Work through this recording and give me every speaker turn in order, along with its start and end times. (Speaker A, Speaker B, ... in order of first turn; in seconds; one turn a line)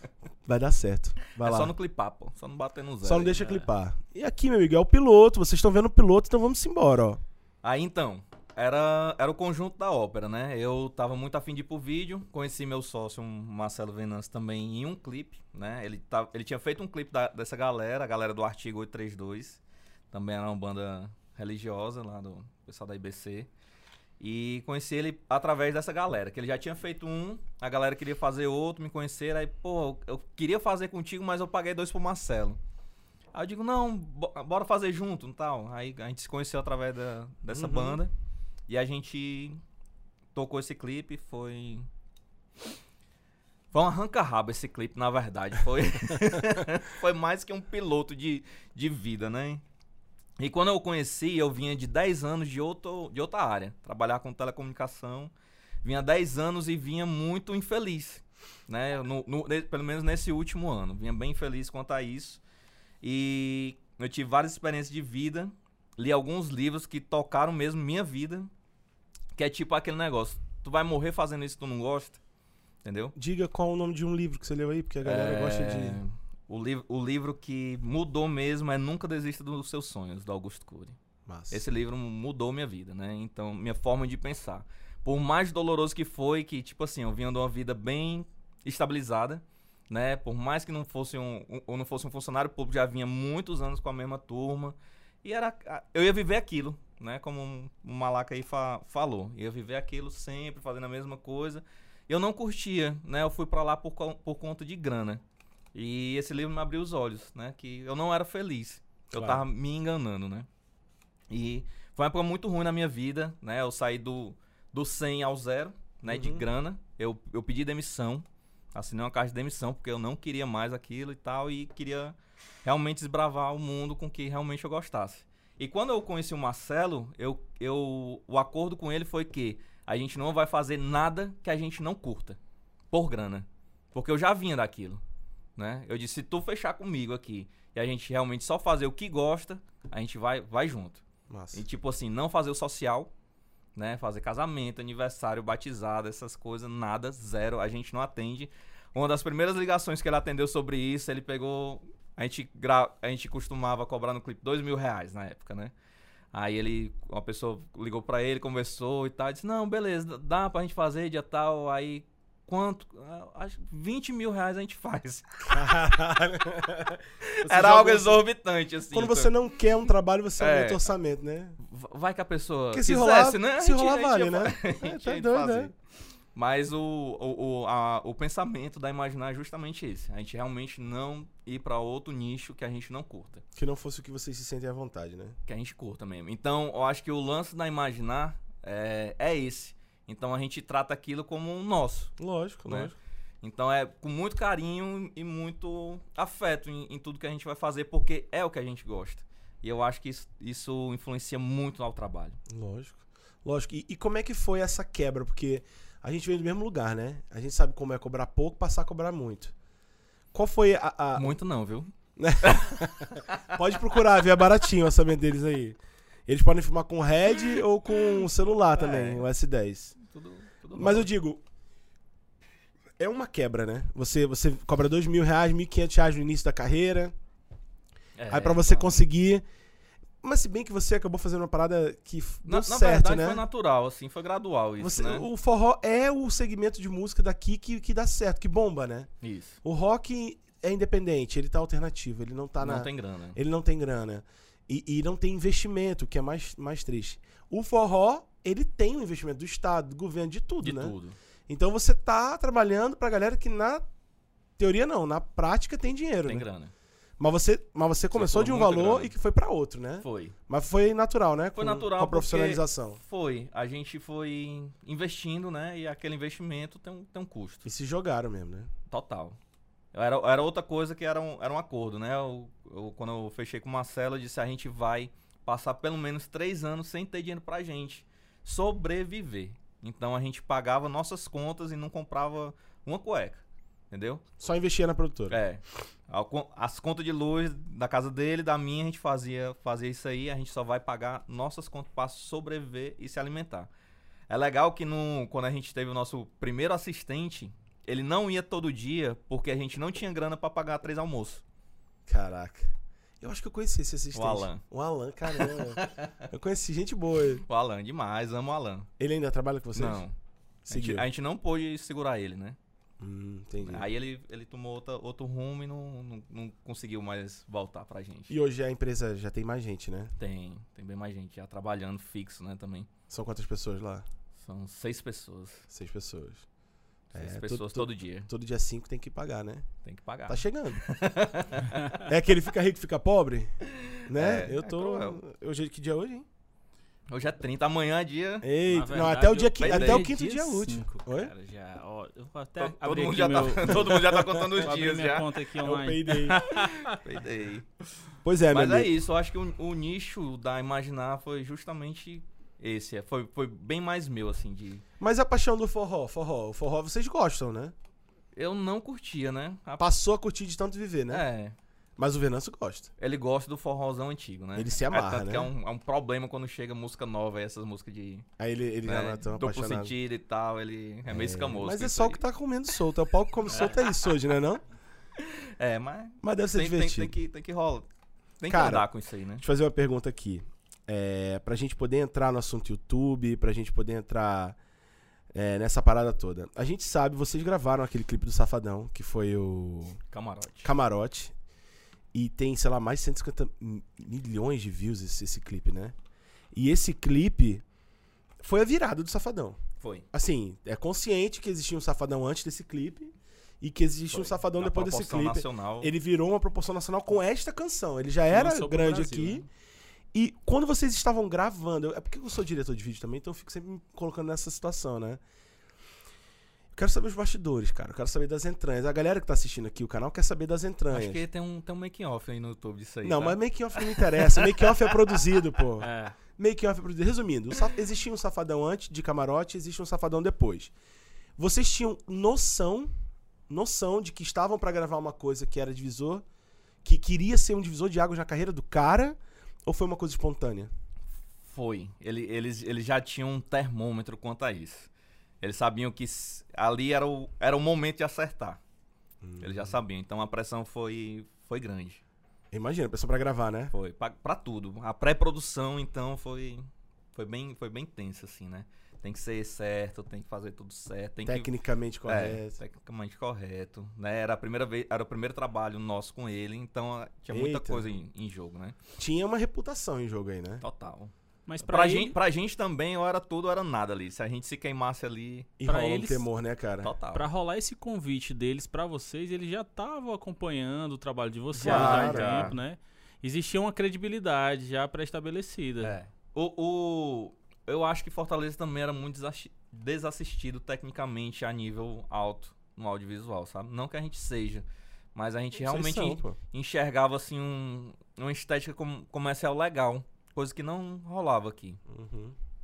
Speaker A: 0.5-1.7
Speaker B: 1.4-3.6
Speaker A: 3.0-7.2
Speaker B: 7.6-19.6
Speaker B: 20.1-23.5
Speaker B: 24.2-32.6
Speaker B: 33.3-38.1
Speaker A: 37.5-38.0
Speaker B: 38.7-39.6
Speaker B: 40.3-41.9
Speaker B: 43.7-49.6
Speaker B: 50.4-55.3
Speaker B: 55.8-62.4
Speaker B: 63.0-68.5
Speaker B: 69.3-72.2
Speaker B: 72.8-73.1
Speaker A: 73.2-76.0
Speaker B: 75.0-81.0
Speaker A: 81.3-81.7
Speaker B: 81.5-105.2
Speaker B: 105.7-110.5
Speaker A: 109.1-109.4
Speaker B: 111.3-132.4
Speaker A: 116.1-116.4
Speaker B: 132.9-135.0
Speaker B: 135.6-141.0
Speaker A: 141.3-141.6
Speaker B: 141.5-143.1
Speaker B: 143.7-155.7
Speaker B: 156.3-165.7
Speaker A: 165.4-168.2
Speaker B: 167.2-169.3
Speaker A: 168.9-171.6
Speaker B: 170.4-170.8
Speaker B: 171.6-175.7
Speaker A: 172.7-175.7
Speaker B: 176.3-183.4
Speaker A: 183.6-185.3
Speaker B: 185.5-192.1
Speaker A: 192.2-192.9
Speaker B: 192.7-202.4
Speaker A: 202.5-209.5
Speaker A: 210.3-211.3
Speaker B: 211.2-211.9
Speaker A: 212.2-219.9
Speaker B: 212.4-213.4
Speaker B: 218.7-219.3
Speaker B: 220.0-221.1
Speaker A: 220.7-221.4
Speaker A: 223.0-227.1
Speaker B: 228.2-229.0
Speaker A: 228.3-229.4
Speaker A: 230.2-233.4
Speaker B: 232.4-235.2
Speaker A: 234.8-239.1
Speaker B: 239.2-239.6
Speaker A: 239.6-250.9
Speaker B: 242.6-243.4
Speaker B: 250.6-251.2
Speaker A: 251.5-253.8
Speaker A: 254.6-256.4
Speaker B: 256.2-256.7
Speaker A: 257.2-263.0
Speaker B: 258.1-259.1
Speaker B: 260.0-260.4
Speaker B: 261.6-267.6
Speaker A: 267.6-268.7
Speaker B: 268.9-269.4
Speaker B: 269.9-284.2
Speaker A: 284.4-285.4
Speaker B: 285.3-293.7
Speaker B: 294.3-301.4
Speaker A: 302.1-307.4
Speaker B: 304.1-304.6
Speaker B: 305.3-306.1
Speaker B: 307.4-308.9
Speaker A: 309.0-310.0
Speaker B: 309.7-310.1
Speaker A: 310.6-311.1
Speaker B: 310.7-312.6
Speaker A: 313.0-313.9
Speaker B: 313.6-318.3
Speaker A: 318.3-320.1
Speaker B: 320.2-322.9
Speaker A: 323.1-324.0
Speaker B: 324.4-325.6
Speaker A: 325.7-326.4
Speaker B: 327.1-328.3
Speaker A: 327.1-329.6
Speaker B: 329.8-332.0
Speaker A: 330.3-330.8
Speaker A: 332.0-333.5
Speaker B: 333.7-335.2
Speaker A: 334.1-336.2
Speaker B: 337.1-338.4
Speaker A: 338.4-341.3
Speaker C: 338.7-347.0
Speaker B: 339.6-340.1
Speaker B: 342.6-345.3
Speaker A: 344.1-344.4
Speaker A: 345.6-346.4
Speaker B: 346.5-347.7
Speaker A: 348.2-348.9
Speaker B: 348.5-354.8
Speaker A: 355.0-357.7
Speaker B: 358.3-359.9
Speaker A: 359.8-361.2
Speaker B: 361.1-361.6
Speaker A: 362.0-362.9
Speaker B: 363.0-368.3
Speaker A: 364.5-365.5
Speaker A: 368.4-369.9
Speaker B: 368.8-372.2
Speaker A: 371.1-374.6
Speaker B: 373.5-373.9
Speaker B: 375.2-377.9
Speaker A: 376.2-377.1
Speaker B: 378.4-379.4
Speaker A: 378.5-378.9
Speaker A: 379.4-384.6
Speaker A: 385.3-390.0
Speaker B: 390.1-390.7
Speaker A: 390.6-391.3
Speaker A: 392.1-395.9
Speaker A: 396.5-397.6
Speaker A: 398.4-399.6
Speaker B: 399.8-400.1
Speaker A: 400.1-409.4
Speaker B: 404.1-405.9
Speaker C: 408.3-409.4
Speaker A: 410.1-415.2
Speaker A: 416.7-421.2
Speaker B: 420.9-424.9
Speaker A: 423.0-430.7
Speaker C: 425.8-426.2
Speaker A: 431.4-432.9
Speaker A: 433.5-436.2
Speaker A: 436.8-440.7
Speaker B: 441.4-444.9
Speaker B: 445.4-448.6
Speaker A: 449.2-449.8
Speaker B: 449.4-452.0
Speaker A: 452.5-453.7
Speaker B: 453.7-461.5
Speaker A: 461.2-462.6
Speaker B: 462.1-468.8
Speaker A: 467.3-467.9
Speaker A: 469.0-470.6
Speaker B: 470.6-475.5
Speaker C: 471.5-472.2
Speaker A: 475.6-476.9
Speaker C: 475.7-476.2
Speaker B: 476.8-477.3
Speaker C: 477.1-486.0
Speaker A: 481.5-482.5
Speaker B: 481.6-482.6
Speaker B: 485.8-501.8
Speaker A: 495.6-496.4
Speaker A: 501.9-502.3